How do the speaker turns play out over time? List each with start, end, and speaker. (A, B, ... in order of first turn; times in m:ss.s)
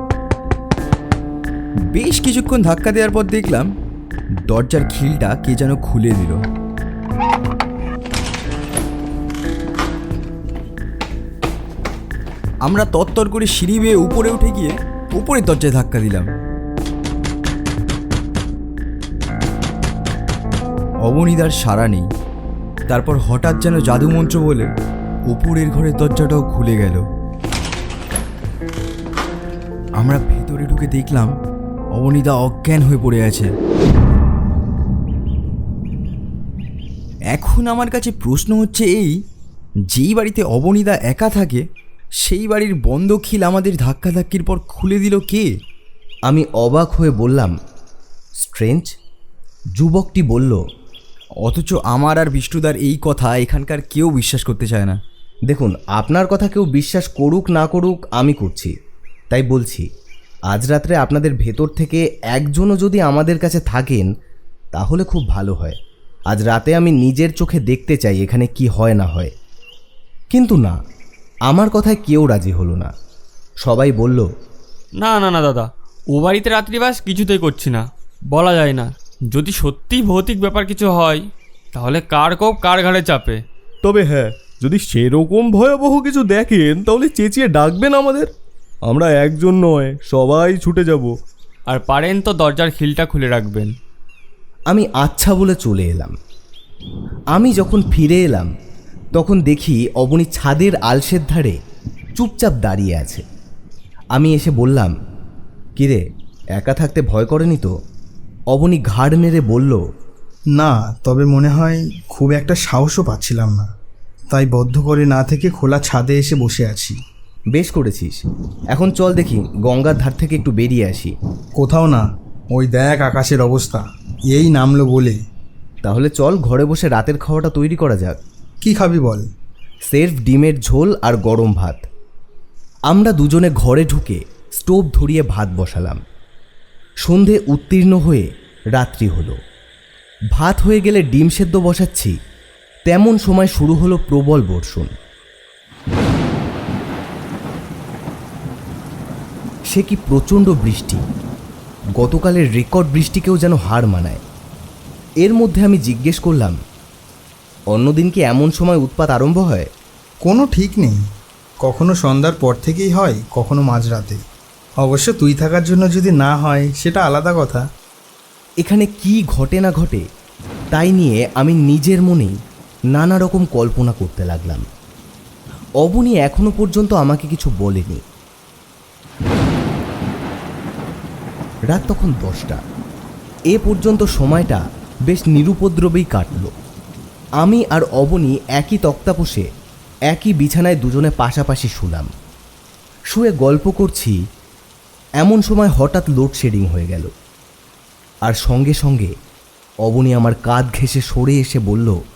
0:01.9-0:03.7 A
0:04.5-0:06.4 A
0:12.6-0:16.3 A
0:21.0-0:22.1 A
0:22.9-0:24.7 A
0:25.3-0:27.0 A
0:30.0-0:31.3 A
0:31.9-0:33.5 A
0:37.3-0:39.2 A
0:39.9-0:41.6 A
0:42.2-0:45.5 A
0:46.3-0:47.5 B
0:48.4-0:48.9 B
0:49.8-0:50.6 B
0:51.4-0:55.0 A
0:55.5-0:58.7 B
0:59.3-0:59.8 B
1:00.5-1:04.1 B
1:04.7-1:05.8 B
1:06.3-1:09.3 B
1:10.3-1:10.8 B
1:11.5-1:12.9 B
1:13.6-1:14.3 B
1:15.0-1:21.2 C
1:21.7-1:23.4 C
1:23.8-1:28.3 D
1:28.9-1:31.1 D
1:31.7-1:33.7 C
1:34.7-1:36.1 B
1:37.3-1:38.5 B
1:39.2-1:41.6 B
1:42.2-1:43.2 B
1:44.1-1:44.9 B
1:46.6-1:47.7 B
1:48.5-1:49.8 B
1:50.6-1:53.7 E
1:54.3-1:57.0 E
1:57.5-2:01.1 B
2:01.6-2:05.2 E
2:05.8-2:08.2 B
2:08.6-2:09.2 E
2:09.9-2:11.8 B
2:12.9-2:16.0 B
2:17.0-2:19.4 B
2:20.3-2:22.1 B
2:22.9-2:24.9 B
2:29.7-2:31.0 B
2:32.0-2:34.2 B
2:35.2-2:36.6 B
2:37.7-2:39.7 B
2:40.2-2:41.0 E
2:41.6-2:44.2 E
2:44.8-2:47.6 E
2:48.6-2:50.0 B
2:50.7-2:52.3 B
2:52.9-2:54.6 B
2:55.8-2:58.0 B
3:01.7-3:02.6 B
3:03.5-3:06.5 B
3:07.4-3:09.4 B
3:10.1-3:12.1 B
3:13.1-3:14.1 B
3:15.2-3:17.1 B
3:18.2-3:19.1 B
3:19.8-3:22.0 B